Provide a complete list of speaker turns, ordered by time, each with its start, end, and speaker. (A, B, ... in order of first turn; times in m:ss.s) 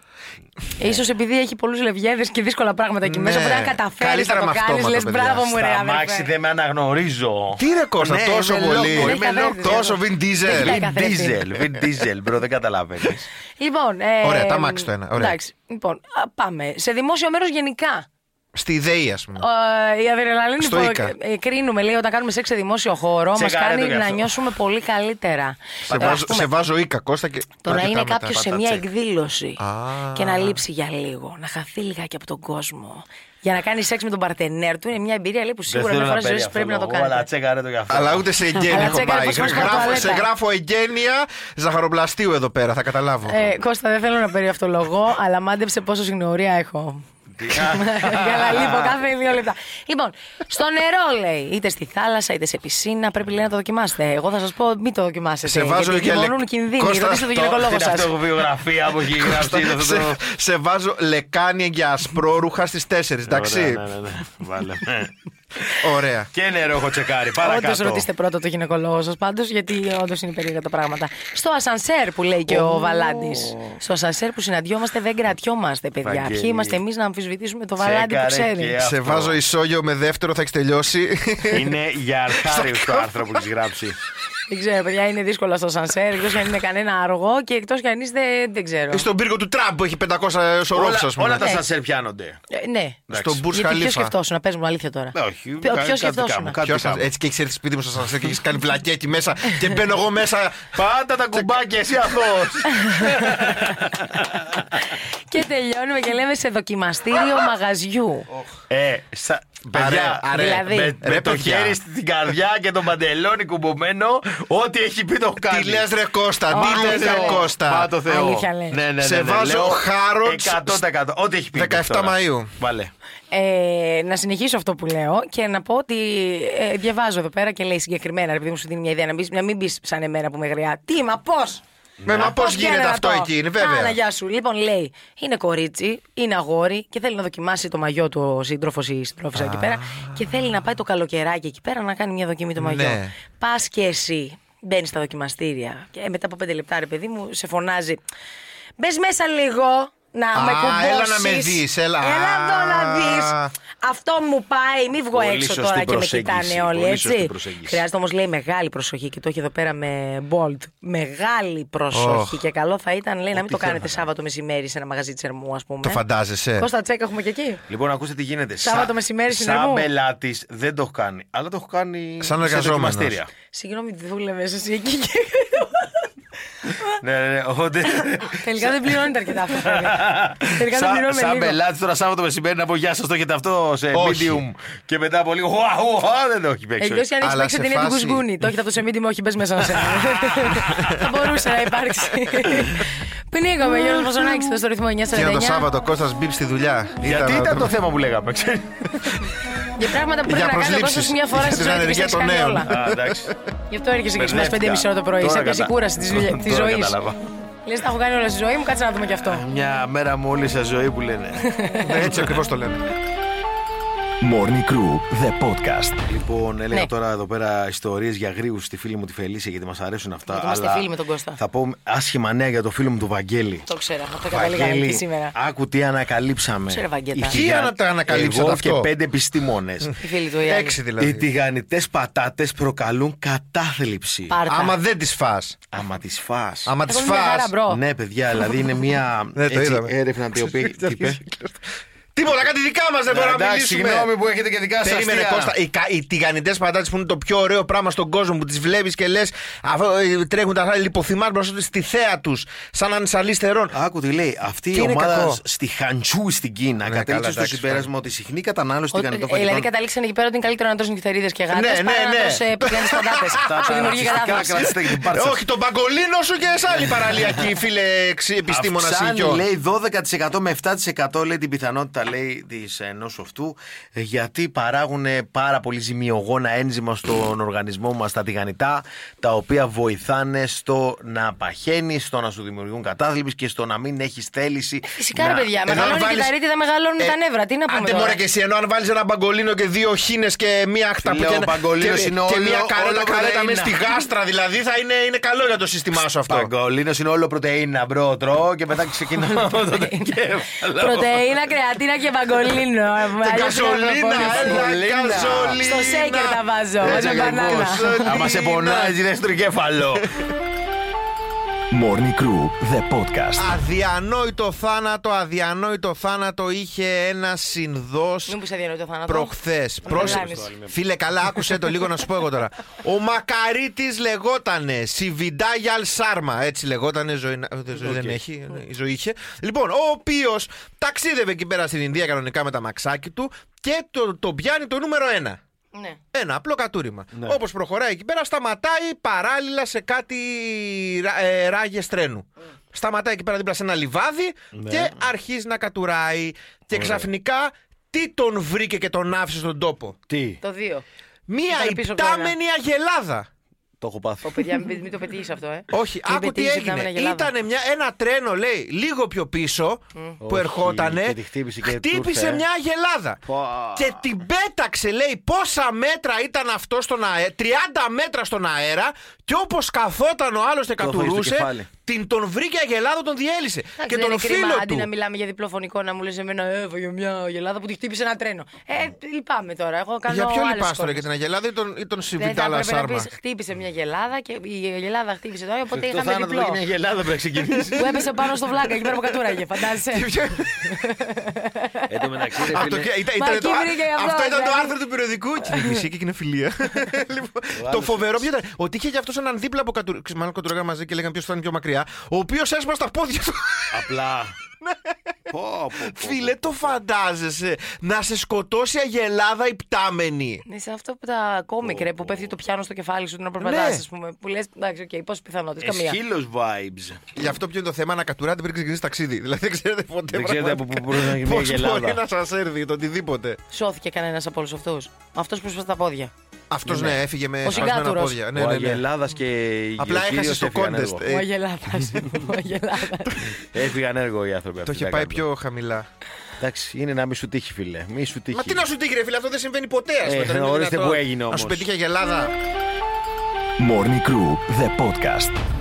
0:00.8-0:06.3 A
0:03.0-0:05.5 B
0:05.5-0:13.3 C
0:07.6-0:10.8 B
0:08.7-0:11.4 A
0:13.6-0:18.0 A
0:14.2-0:15.4 B
0:18.5-0:19.4 B
0:19.4-0:26.5 A
0:20.6-0:21.1 B
0:23.3-0:24.3 C
0:25.9-0:26.3 C
0:25.9-0:28.7 B
0:27.6-0:29.6 A
0:29.6-0:30.6 B
0:30.1-0:37.3 A
0:35.7-0:40.1 C
0:37.9-0:43.5 B
0:38.6-0:40.2 A
0:43.3-0:58.1 A
0:47.4-0:48.9 C
0:55.4-0:57.5 B
0:57.4-1:00.2 C
0:59.1-1:03.8 B
1:03.3-1:05.8 C
1:05.8-1:06.3 B
1:06.3-1:08.0 C
1:07.4-1:18.7 A
1:12.5-1:13.8 C
1:16.0-1:16.8 C
1:17.8-1:19.4 C
1:18.8-1:21.7 B
1:21.5-1:24.0 C
1:22.4-1:23.2 B
1:24.5-1:29.1 A
1:28.9-1:31.5 B
1:30.7-1:32.4 C
1:31.4-1:31.6 A
1:32.5-1:36.6 A
1:33.1-1:33.4 C
1:33.1-1:34.1 B
1:35.1-1:37.1 C
1:36.6-1:40.8 B
1:40.7-1:44.8 C
1:42.8-1:43.4 A
1:45.3-1:48.3 A
1:48.3-1:55.9 C
1:49.7-1:51.8 B
1:50.3-1:51.0 A
1:55.4-1:57.9 B
1:56.5-2:02.9 C
1:56.5-1:57.5 A
1:58.0-1:58.8 A
1:59.0-2:00.8 B
2:01.5-2:02.5 B
2:03.3-2:11.6 A
2:12.0-2:12.4 C
2:12.0-2:14.0 B
2:12.2-2:28.0 A
2:19.3-2:20.3 B
2:22.6-2:23.1 B
2:28.8-2:46.0 A
2:30.3-2:33.5 B
2:35.1-2:37.8 C
2:41.9-2:42.4 B
2:43.3-2:44.0 C
2:45.8-2:46.7 B
2:46.6-2:47.6 A
2:47.7-2:53.3 C
2:48.6-2:49.8 A
2:52.2-2:53.2 B
2:53.5-2:56.1 A
2:57.0-3:07.1 C
2:58.3-3:01.6 A
3:03.9-3:04.4 B
3:06.8-3:15.7 A
3:07.2-3:08.2 B
3:09.9-3:10.6 C
3:10.7-3:11.1 B
3:15.1-3:17.7 B
3:17.0-3:19.3 C
3:19.8-3:22.7 A
3:20.3-3:23.3 B
3:22.7-3:23.3 C
3:23.7-3:27.0 A
3:24.2-3:27.3 C
3:27.6-3:29.4 A
3:29.2-3:32.4 C
3:31.4-3:32.0 A
3:31.8-3:32.8 B
3:34.2-3:36.0 D
3:36.1-3:43.6 C
3:40.3-3:41.4 A
3:43.7-3:45.3 A
3:44.3-3:49.9 C
3:46.7-3:47.4 A
3:47.3-3:48.9 B
3:50.0-3:50.8 A
3:50.4-3:51.3 B
3:51.0-3:54.4 C
3:54.3-3:54.8 A
3:54.5-3:55.6 B
3:55.7-3:56.7 C
3:56.7-3:57.5 B
3:56.9-3:57.8 A
3:57.7-4:01.2 C
3:59.4-4:01.6 B
4:02.1-4:04.1 B
4:03.1-4:05.6 C
4:04.8-4:13.7 B
4:13.7-4:19.7 C
4:14.7-4:15.4 B
4:16.8-4:17.9 B
4:18.9-4:24.7 A
4:21.5-4:29.4 B
4:23.4-4:25.4 C
4:26.7-4:27.5 C
4:28.5-4:45.4 C
4:44.9-4:48.2 A
4:45.2-4:46.3 B
4:47.7-4:56.5 B
4:51.0-4:53.8 C
4:56.3-5:01.3 C
4:59.2-5:00.1 A
5:00.7-5:04.6 A
5:03.2-5:08.9 B
5:04.1-5:05.8 C
5:05.6-5:08.2 A
5:06.8-5:10.1 C
5:11.7-5:13.5 D
5:13.4-5:18.4 B
5:18.3-5:20.5 A
5:19.1-5:35.4 B
5:19.8-5:20.7 C
5:27.8-5:28.2 C
5:35.7-5:36.0 A
5:36.1-5:50.0 B
5:37.1-5:37.4 C
5:44.5-5:45.1 C
5:46.7-5:47.1 C
5:50.1-5:50.4 C
5:50.4-5:50.8 A
5:51.3-5:53.3 B
5:51.5-5:52.3 A
5:53.8-5:54.8 C
5:54.2-5:57.3 A
5:55.7-6:03.2 B
6:00.2-6:02.4 C
6:03.2-6:04.0 C
6:03.7-6:14.9 B
6:10.8-6:11.7 C
6:13.8-6:21.0 A
6:20.1-6:23.1 B
6:22.2-6:26.6 A
6:25.7-6:29.1 C
6:27.7-6:30.1 A
6:29.9-6:30.8 B
6:30.6-6:31.9 A
6:31.9-6:32.9 C
6:32.5-6:43.9 B
6:33.2-6:34.7 A
6:35.5-6:35.8 A
6:37.5-6:38.3 C
6:43.7-6:44.3 C
6:44.6-6:44.9 B
6:45.3-6:46.8 C
6:45.9-6:50.4 B
6:50.5-6:56.0 A
6:51.6-6:52.3 C
6:53.4-6:53.8 B
6:55.6-6:57.1 C
6:57.2-7:03.4 B
7:00.1-7:02.0 C
7:03.5-7:06.1 A
7:06.5-7:08.8 B
7:06.6-7:07.0 C
7:07.4-7:08.2 A
7:08.3-7:11.0 C
7:09.8-7:11.3 B
7:11.1-7:13.3 A
7:13.4-7:15.2 C
7:14.7-7:15.8 B
7:16.4-7:18.6 C
7:18.3-7:22.3 B
7:20.0-7:21.7 C
7:23.6-7:25.4 D